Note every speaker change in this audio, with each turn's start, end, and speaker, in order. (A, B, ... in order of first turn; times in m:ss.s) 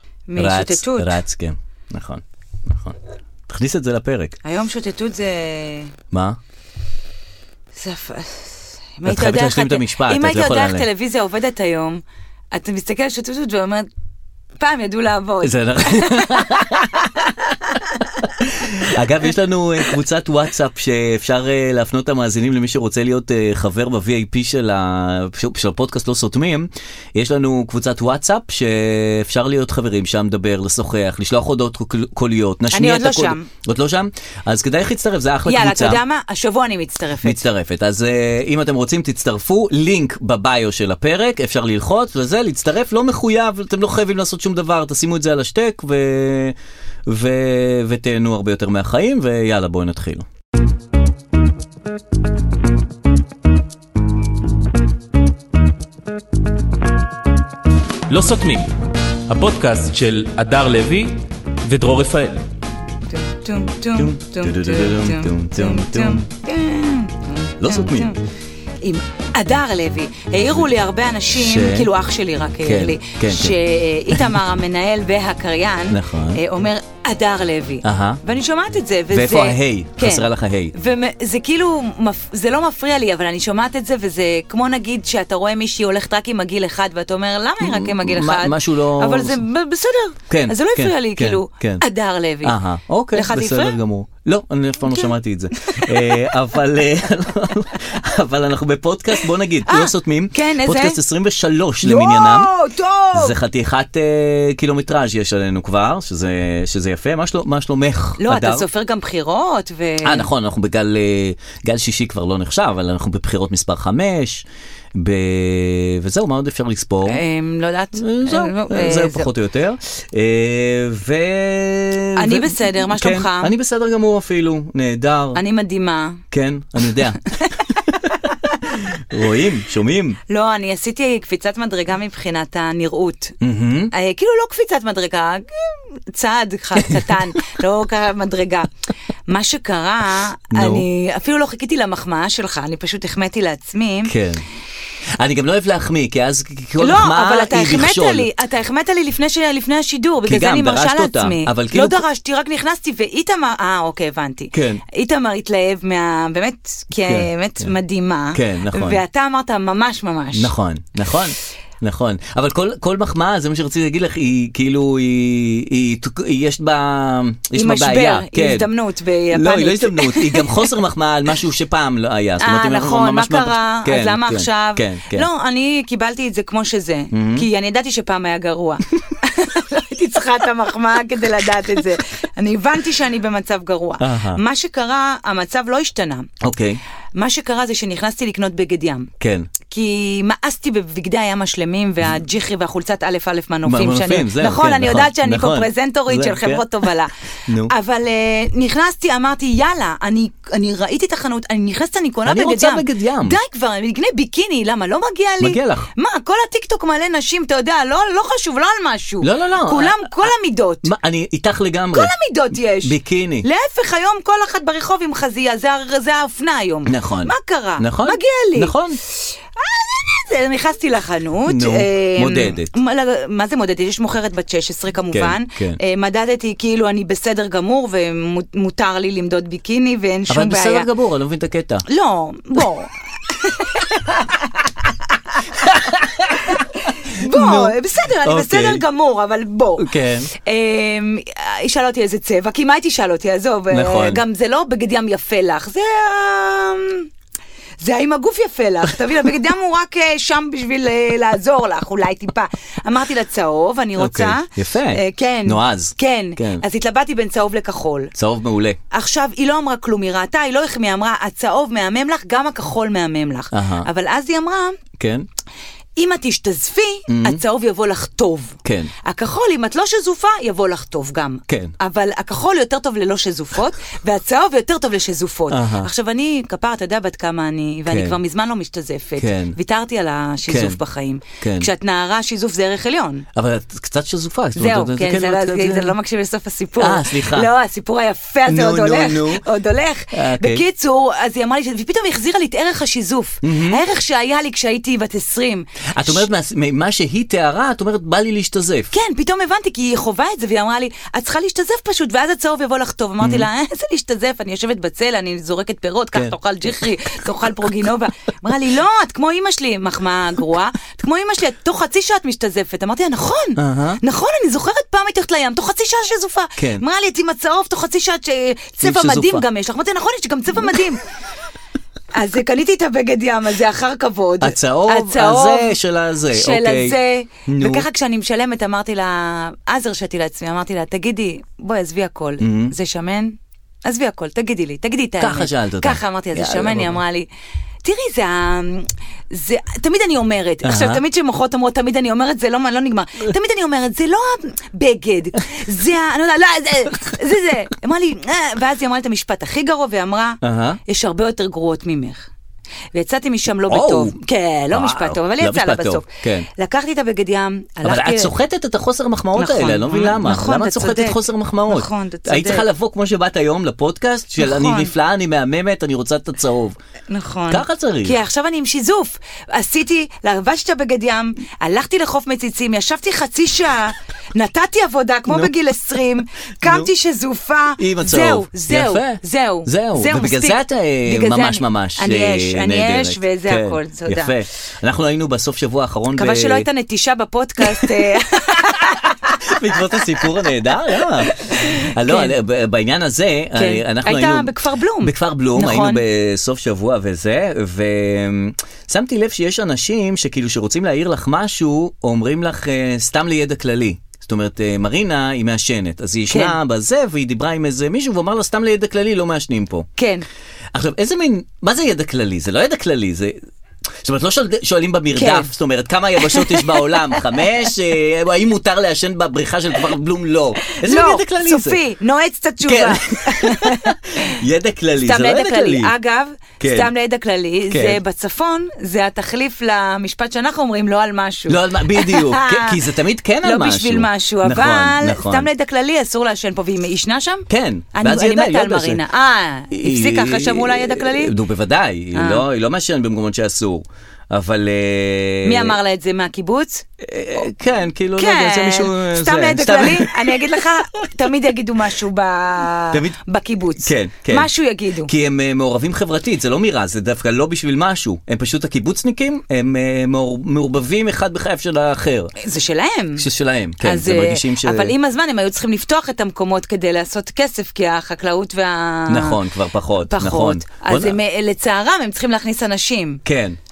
0:00.3-0:01.2 A
0:00.4-0:04.4 B
0:04.4-0:05.9 A
0:06.1-0:06.4 B
0:07.8-0:13.9 A
0:09.0-0:10.9 B
0:14.6-0:18.2 A
0:15.4-0:16.9 B
0:18.4-0:36.0 B
0:32.7-0:33.5 A
0:35.4-0:37.5 A
0:37.2-0:50.3 B
0:58.1-0:58.6 C
0:59.3-1:02.4 C
0:59.5-1:00.1 B
1:03.1-1:08.2 A
1:04.0-1:06.2 B
1:07.6-1:08.1 B
1:08.8-1:32.6 A
1:11.3-1:11.9 B
1:12.6-1:13.6 B
1:14.1-1:14.4 B
1:15.9-1:16.4 B
1:17.8-1:18.2 B
1:19.1-1:20.7 B
1:27.6-1:29.4 B
1:30.3-1:31.8 B
1:32.4-1:42.5 B
1:33.1-1:33.8 A
1:34.9-1:36.3 A
1:39.6-1:41.0 A
1:41.8-1:43.3 A
1:43.1-1:48.7 B
1:48.2-1:50.3 A
1:50.0-1:57.2 B
1:57.0-1:59.3 A
1:58.0-2:05.4 B
2:02.2-2:03.5 A
2:05.3-2:06.2 A
2:06.3-2:07.2 B
2:07.7-2:10.2 B
2:10.3-2:13.4 A
2:13.4-2:13.9 B
2:13.9-2:18.7 A
2:19.3-2:24.2 A
2:20.5-2:20.9 B
2:24.1-2:24.4 B
2:25.1-2:28.3 B
2:26.8-2:40.5 A
2:30.2-2:32.0 B
2:34.5-2:34.8 B
2:37.0-2:37.7 B
2:38.3-2:39.0 B
2:40.3-2:48.7 B
2:47.5-2:50.7 A
2:49.3-2:55.3 B
2:52.4-3:06.3 A
2:57.1-2:57.5 B
3:04.0-3:04.4 B
3:06.4-3:06.8 B
3:07.2-3:09.1 A
3:09.2-3:09.5 B
3:09.7-3:17.1 A
3:13.6-3:16.8 B
3:17.5-3:17.7 B
3:17.6-3:30.9 A
3:22.2-3:23.4 B
3:25.4-3:25.9 B
3:29.2-3:30.3 B
3:30.8-3:32.1 B
3:31.9-3:38.7 A
3:32.8-3:33.5 B
3:36.9-3:39.0 B
3:39.3-3:50.9 A
3:41.5-3:42.7 B
3:45.1-3:45.8 B
3:50.3-3:51.8 B
3:51.9-3:54.7 A
3:55.6-3:56.6 B
3:56.5-4:07.1 A
3:57.2-3:58.8 B
3:59.8-4:00.3 B
4:03.7-4:04.2 B
4:07.8-4:18.1 A
4:14.0-4:16.6 B
4:18.2-4:18.8 B
4:18.9-4:24.8 A
4:23.5-4:23.9 B
4:25.0-4:25.3 B
4:26.0-4:43.2 A
4:27.1-4:27.4 B
4:28.6-4:28.9 B
4:31.5-4:31.7 B
4:35.5-4:35.9 B
4:37.9-4:38.2 B
4:39.2-4:39.6 B
4:40.5-4:40.8 B
4:41.4-4:41.7 B
4:43.3-4:45.9 B
4:44.5-4:56.2 A
4:46.8-4:47.5 B
4:48.4-4:49.4 B
4:50.1-4:50.6 B
4:53.4-4:53.8 B
4:55.9-4:58.9 B
4:58.9-5:21.0 A
5:03.2-5:03.5 B
5:13.6-5:14.0 B
5:16.6-5:16.8 B
5:18.8-5:19.4 B
5:22.1-5:25.8 A
5:24.4-5:27.9 B
5:26.3-5:37.3 A
5:32.4-5:32.8 B
5:35.2-5:37.0 B
5:37.8-5:52.3 A
5:40.6-5:41.0 B
5:50.4-5:50.8 B
5:52.9-5:58.3 A
5:53.7-5:54.2 B
5:54.7-5:56.5 B
5:57.8-6:06.8 B
5:59.3-6:02.6 A
6:04.4-6:04.9 A
6:07.1-6:24.3 A
6:07.5-6:08.2 B
6:15.3-6:15.5 B
6:16.6-6:16.9 B
6:17.8-6:26.7 B
6:26.1-6:30.2 A
6:27.6-6:27.9 B
6:29.4-6:49.8 B
6:31.0-6:32.3 A
6:33.5-6:36.0 A
6:46.3-6:46.6 A
6:50.0-6:50.2 A
6:50.7-6:53.4 B
6:54.0-7:01.8 B
6:55.1-6:55.5 A
6:56.2-6:57.2 A
7:00.8-7:04.3 A
7:02.6-7:05.9 B
7:05.0-7:12.8 A
7:06.6-7:06.9 B
7:07.7-7:08.0 B
7:11.5-7:15.5 B
7:13.4-7:21.3 A
7:17.5-7:19.0 B
7:19.7-7:25.8 B
7:22.1-7:22.4 A
7:25.4-7:26.8 A
7:27.0-7:30.4 B
7:28.2-7:35.1 A
7:32.9-7:33.2 B
7:33.8-7:34.5 B
7:35.0-7:42.3 B
7:42.4-7:43.2 A
7:43.2-7:44.9 B
7:43.8-7:49.4 A
7:49.1-7:51.2 B
7:50.1-7:53.2 A
7:53.2-7:53.6 B